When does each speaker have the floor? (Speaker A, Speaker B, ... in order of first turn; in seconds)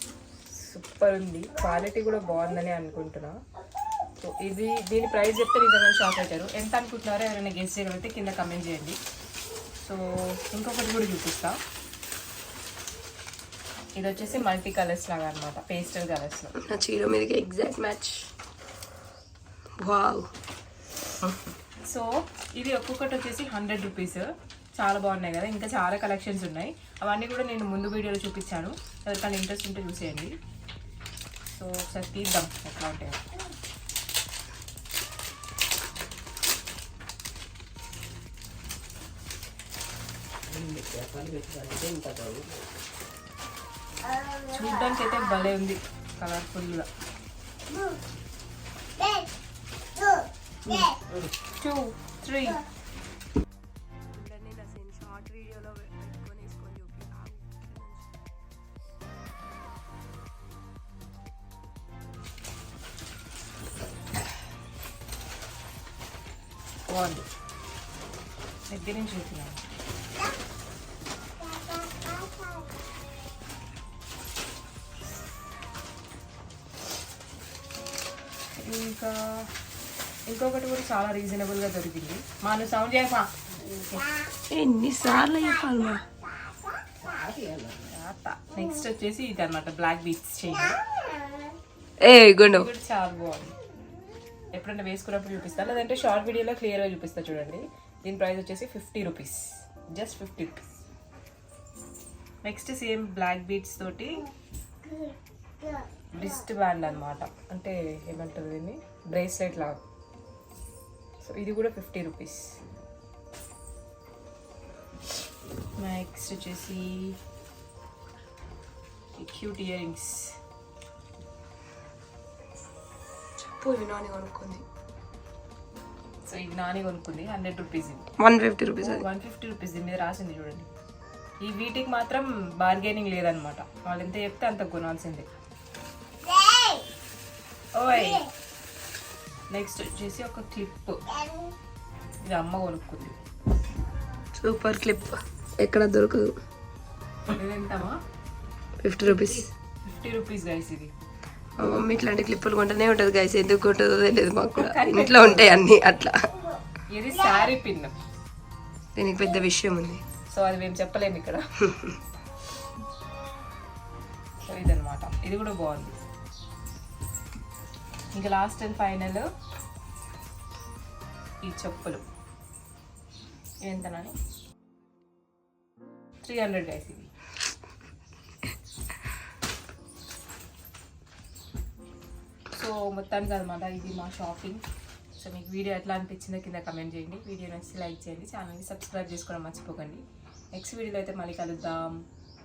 Speaker A: 0.5-3.4, 4.2-9.0, 9.8-11.6, 13.9-16.5, 21.9-30.4, 31.5-33.2, 44.4-46.9, 50.7-50.9, 51.6-52.6, 66.9-67.3, 68.7-69.6, 78.5-79.5, 80.3-83.3, 87.9-90.8, 92.5-93.6, 94.5-100.7, 102.4-104.3, 106.1-109.8, 111.2-112.6, 115.8-117.2, 119.2-120.4, 126.3-128.1, 128.8-130.7, 131.4-135.3, 137.8-138.3, 139.5-141.0, 142.2-143.2, 147.3-148.0, 149.0-150.9, 154.5-155.5, 156.9-157.9, 160.3-161.4, 164.4-165.9, 168.2-169.3, 171.4-172.1, 173.6-174.2, 176.2-177.1, 182.5-184.6, 185.2-190.0, 190.6-192.1
Speaker B: 16.6-18.3, 19.8-20.3, 54.1-58.1, 84.5-86.0, 92.0-92.7, 123.4-124.7, 128.2-129.0, 144.4-146.3, 148.8-149.5, 151.6-156.5, 159.0-160.0
Speaker C: 40.5-42.7, 87.0-87.9